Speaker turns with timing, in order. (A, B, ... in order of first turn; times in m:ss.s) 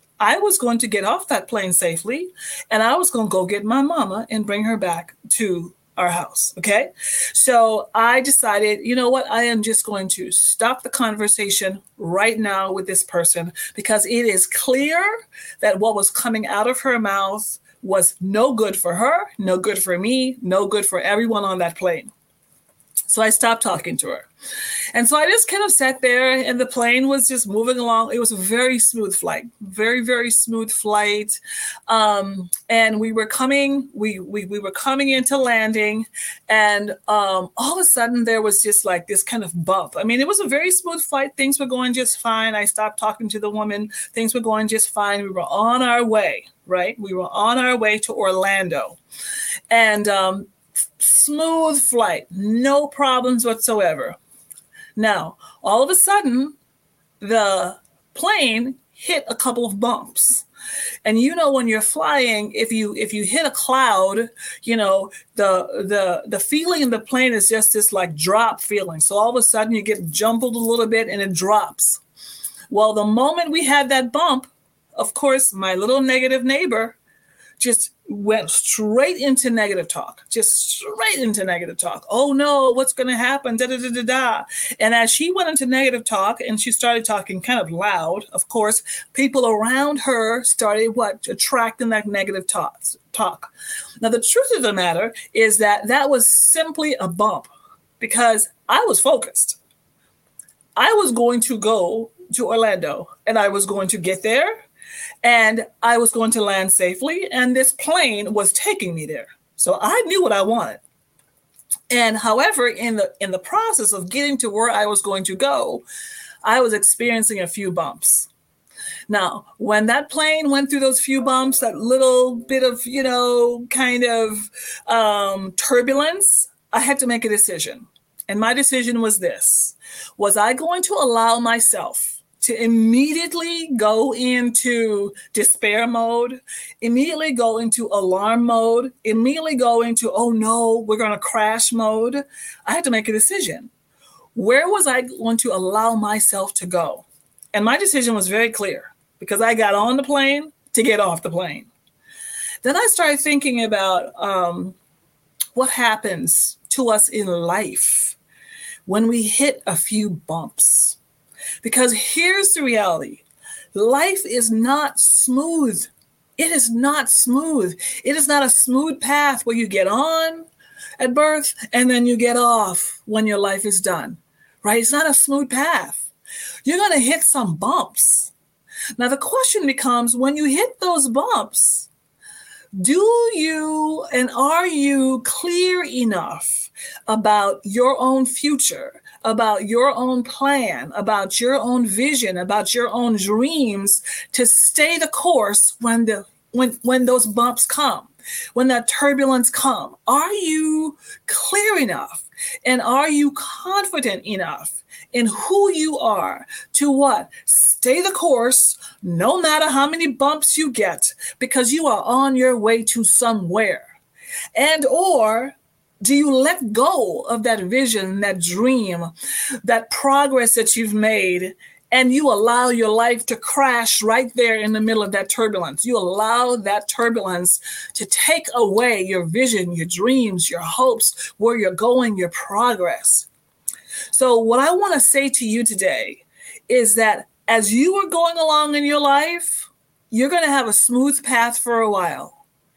0:00.2-0:22.1 A
0:23.1-0:24.3 A
0:25.0-0:31.4 A
0:31.9-0:49.0 A
0:49.7-0:54.2 A
0:55.0-0:56.6 A
0:57.2-1:00.5 A
1:01.0-1:12.0 A
1:12.7-1:17.0 A
1:17.6-1:39.6 A
1:40.8-1:44.6 A
1:45.2-1:50.8 A
1:51.9-1:55.8 A
1:56.4-1:58.3 A
1:59.1-2:23.7 A
2:24.4-2:31.7 A
2:32.6-2:34.8 A
2:35.6-2:38.2 A
2:38.9-2:41.0 A
2:41.6-2:43.2 A
2:43.8-2:50.5 A
2:51.0-2:56.1 A
2:56.6-2:58.3 A
2:59.0-3:01.9 A
3:02.8-3:33.9 A
3:34.6-3:39.1 A
3:39.6-3:53.3 A
3:54.1-4:02.4 A